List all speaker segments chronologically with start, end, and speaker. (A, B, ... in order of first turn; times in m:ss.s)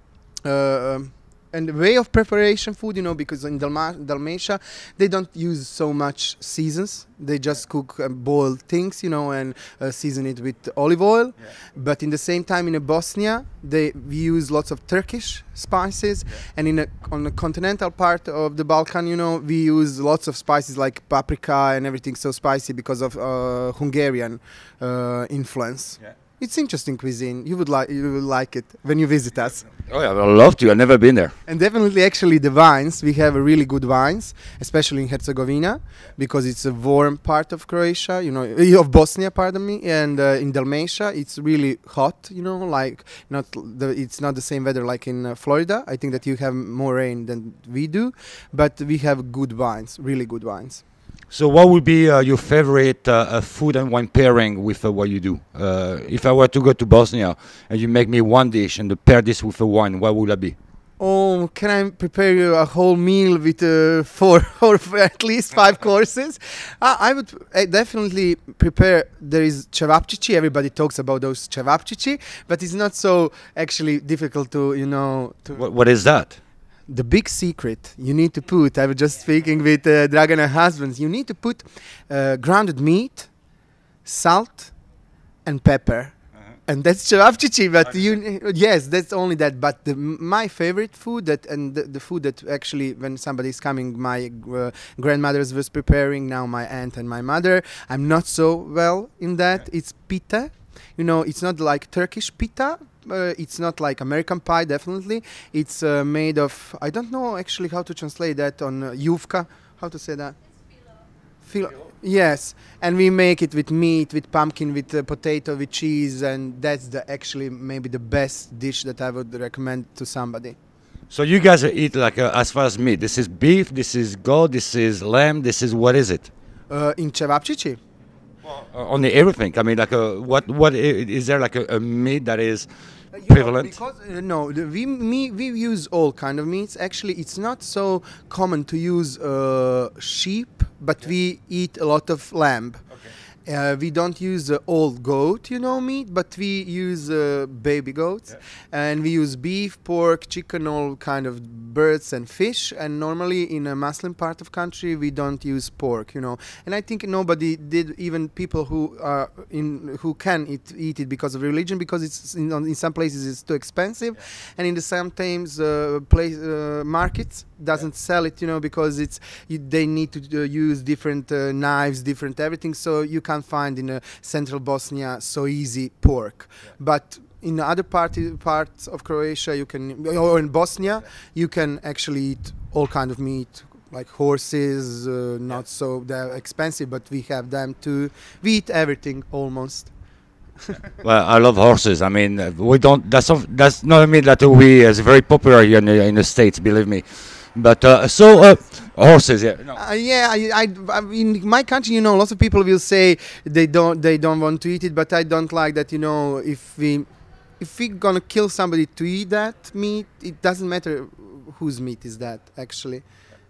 0:00.3-0:29.7 A
0:29.8-0:31.4 B
0:31.4-0:50.8 A
0:51.3-1:00.6 B
1:01.0-1:15.7 A
1:15.5-1:16.4 B
1:16.9-1:23.3 A
1:24.0-1:24.7 A
1:25.4-1:50.4 A
1:51.4-2:00.6 A
2:01.1-2:06.3 B
2:06.7-2:07.8 A
2:08.4-2:12.7 B
2:13.1-2:22.9 A
2:13.2-2:13.7 B
2:23.4-3:09.9 A
3:11.0-3:19.8 B
3:19.7-3:33.0 A